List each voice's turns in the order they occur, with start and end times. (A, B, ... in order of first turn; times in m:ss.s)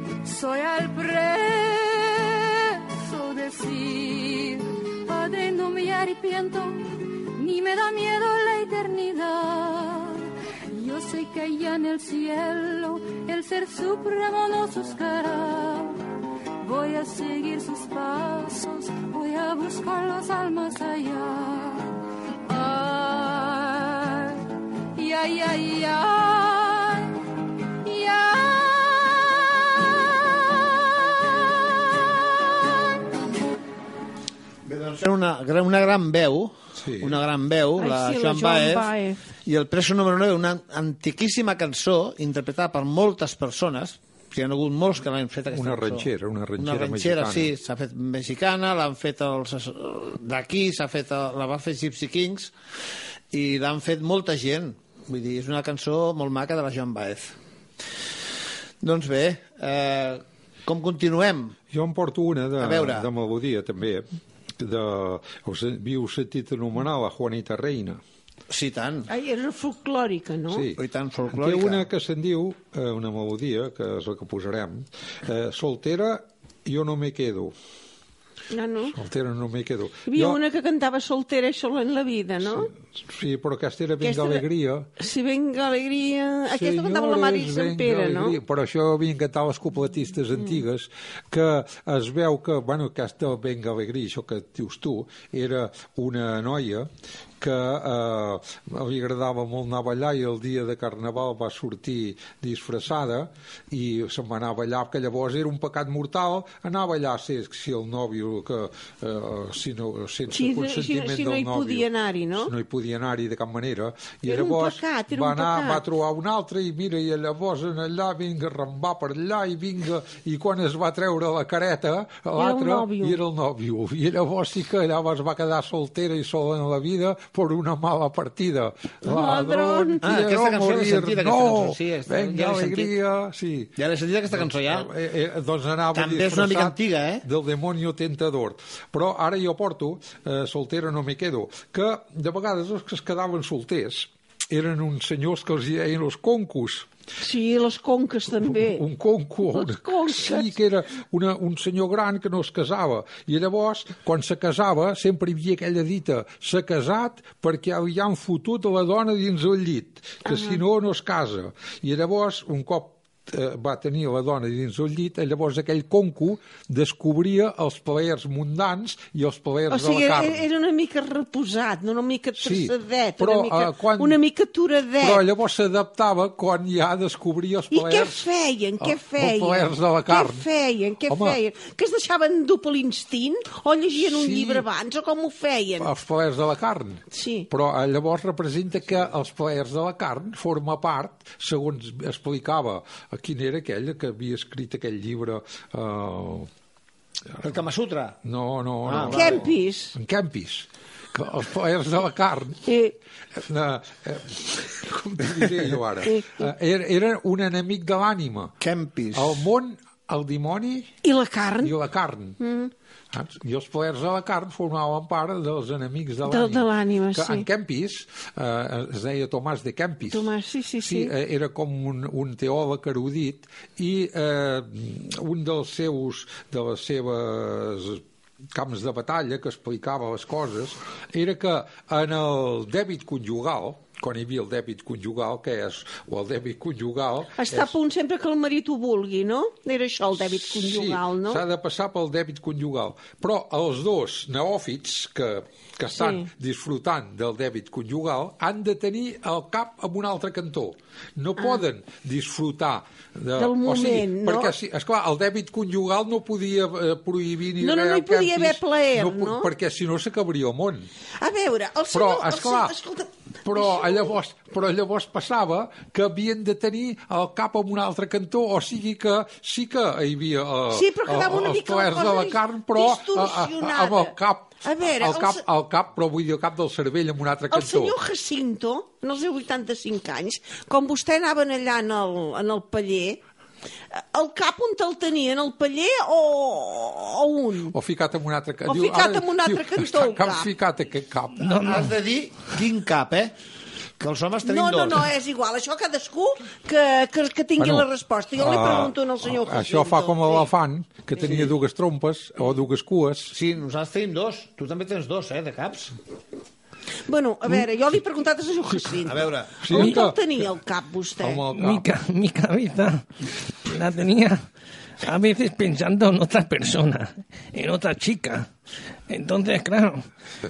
0:00.2-0:16.0 A
0:16.6-0:21.9 A
0:22.5-0:24.4 A
0:25.0-0:27.1 A
0:27.8-0:32.8 A
0:34.6-0:38.9 B
0:36.8-0:37.2 C
0:37.8-0:39.2 D
0:39.4-0:52.5 B
0:45.5-0:47.5 C
0:53.3-0:57.4 B
0:58.8-1:01.6 B
1:01.7-1:04.1 C
1:02.6-1:03.1 B
1:04.6-1:08.0 C
1:08.5-1:09.1 B
1:09.1-1:10.7 D
1:10.5-1:17.5 C
1:10.8-1:11.9 B
1:18.5-1:19.0 D
1:18.9-1:20.4 C
1:20.1-1:22.7 D
1:23.0-1:24.9 C
1:24.0-1:24.4 D
1:25.0-1:28.4 D
1:26.5-1:36.9 C
1:37.4-1:51.9 C
1:50.3-1:52.5 D
1:52.4-2:13.8 C
1:54.3-1:55.8 D
2:02.4-2:03.2 D
2:09.0-2:10.0 D
2:10.0-2:12.9 B
2:13.8-2:14.9 B
2:14.3-2:26.9 C
2:15.9-2:17.2 B
2:27.2-2:28.8 D
2:28.4-2:50.4 C
2:29.5-2:30.5 D
2:40.3-2:40.6 D
2:49.7-2:55.2 D
2:52.4-2:54.2 C
2:55.0-2:58.2 C
2:57.7-3:05.9 D
2:58.8-3:00.5 C
3:01.1-3:01.4 C
3:04.0-3:04.6 C
3:05.8-3:16.5 C
3:07.1-3:07.5 D
3:17.3-3:17.6 C
3:17.4-3:18.2 B
3:18.2-3:22.6 C
3:18.9-3:19.5 B
3:19.1-3:19.9 D
3:22.7-3:22.9 D
3:23.4-3:28.5 C
3:26.0-3:26.5 D
3:28.6-3:29.5 B
3:29.1-3:30.9 C
3:31.0-3:31.8 D
3:31.6-3:32.4 C
3:32.4-3:32.7 D
3:33.1-3:40.3 C
3:36.3-3:37.5 D
3:40.1-3:41.1 D
3:40.8-3:48.0 C
3:48.5-3:57.7 C
3:57.4-4:01.4 D
4:00.2-4:20.9 C
4:05.9-4:06.3 D
4:13.4-4:14.5 D
4:17.6-4:19.5 D
4:21.2-4:24.1 D
4:21.9-4:22.7 C
4:23.4-4:38.0 C
4:30.7-4:35.4 D
4:37.5-4:43.2 D
4:44.0-4:47.7 D
4:47.7-4:51.9 C
4:48.7-4:50.5 D
4:51.4-4:51.9 E
4:51.6-4:53.3 B
4:54.0-4:55.1 B
4:54.4-5:00.5 D
4:57.6-5:03.4 C
5:03.3-5:06.0 B
5:07.1-5:11.4 D
5:09.0-5:09.6 B
5:09.6-5:10.5 C
5:11.2-5:11.9 C
5:11.5-5:14.5 E
5:15.0-5:18.5 E
5:19.1-5:20.1 E